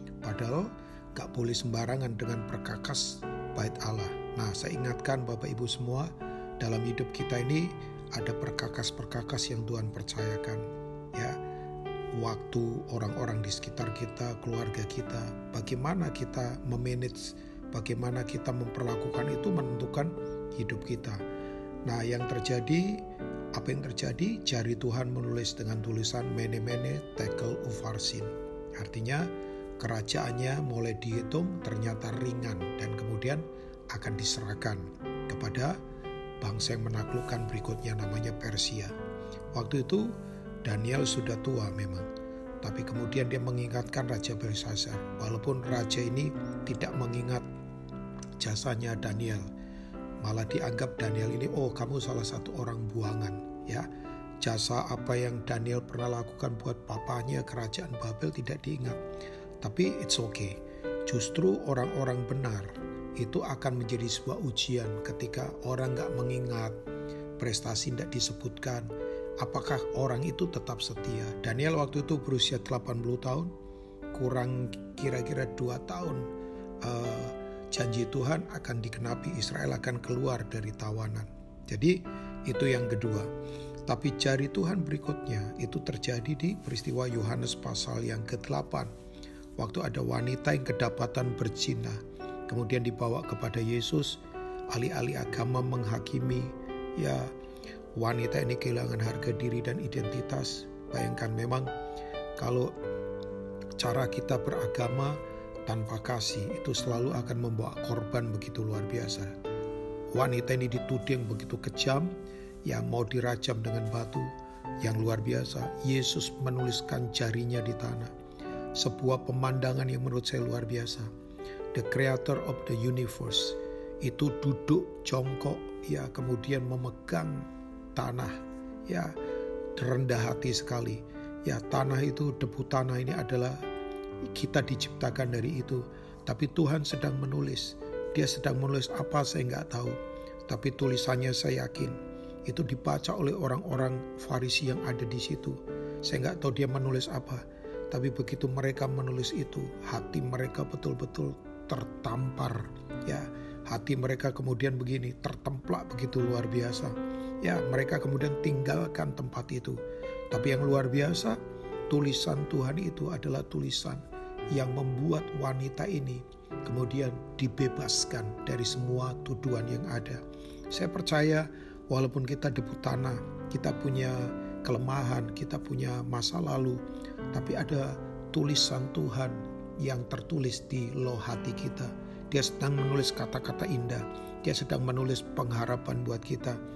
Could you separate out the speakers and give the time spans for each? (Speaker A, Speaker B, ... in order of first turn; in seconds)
Speaker A: 0.2-11.4, 12.1-21.2, 21.9-35.8, 36.4-38.9, 39.5-42.1, 42.6-47.4, 48.4-49.4, 50.2-53.9, 54.4-59.0, 59.6-66.8, 67.4-73.5, 74.1-76.2, 76.8-83.3, 83.9-88.9, 89.6-97.3, 98.0-101.7, 102.4-102.7, 103.8-109.3, 110.1-112.1, 112.6-114.3, 114.8-118.1, 118.7-121.1, 121.7-128.3, 128.9-129.1, 129.7-133.6, 134.2-140.0, 140.5-159.8, 160.3-164.0, 164.5-176.8, 177.3-186.6